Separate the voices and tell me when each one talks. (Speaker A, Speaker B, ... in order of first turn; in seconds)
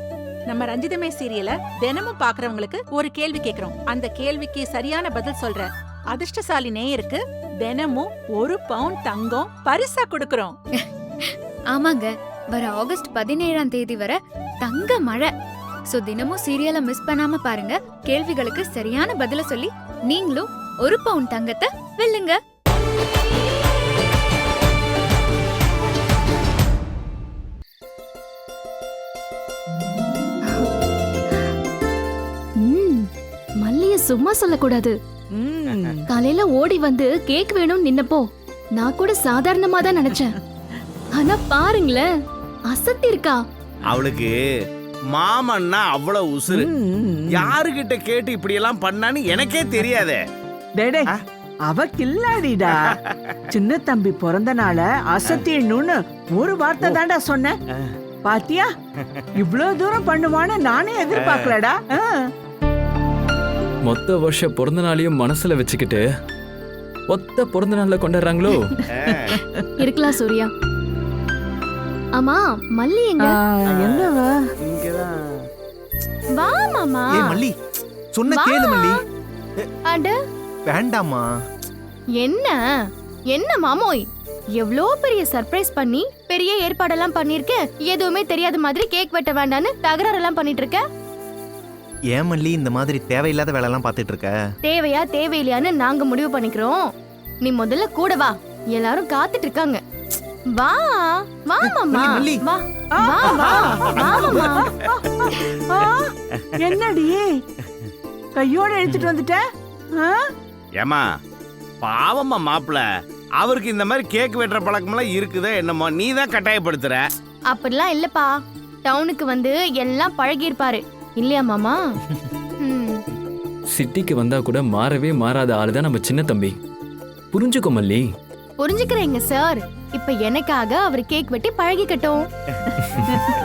Speaker A: 0.5-10.5
Speaker B: 10.8-15.3, 15.9-22.4
Speaker C: 32.6-33.1, 33.6-34.9, 36.1-38.2, 38.8-40.3, 41.1-42.0, 42.7-43.4, 69.8-70.5, 72.2-73.4, 76.4-77.2, 78.3-78.9, 82.2-82.6, 83.3-84.0, 84.6-90.8, 94.6-96.8, 97.4-99.8, 100.6-104.7, 117.5-118.3, 118.8-121.8, 122.6-123.0, 128.6-132.2
Speaker D: 35.3-36.0, 46.5-47.5, 50.8-51.1, 51.7-52.9, 53.5-57.5, 58.2-58.7, 59.4-62.3, 73.2-74.5, 103.0-107.4, 108.3-109.4, 110.0-110.2
Speaker E: 43.9-44.3, 45.1-46.7, 47.3-50.2, 52.7-53.1, 61.1-61.6, 68.9-69.4, 73.7-75.2, 103.3-104.9, 110.8-111.0, 111.8-112.8, 113.4-117.0
Speaker F: 63.8-66.0, 67.1-68.7, 123.7-126.6, 127.3-128.0
Speaker G: 77.1-77.5, 78.1-79.0, 80.7-81.2, 92.1-94.3, 101.6-102.4, 108.9-109.1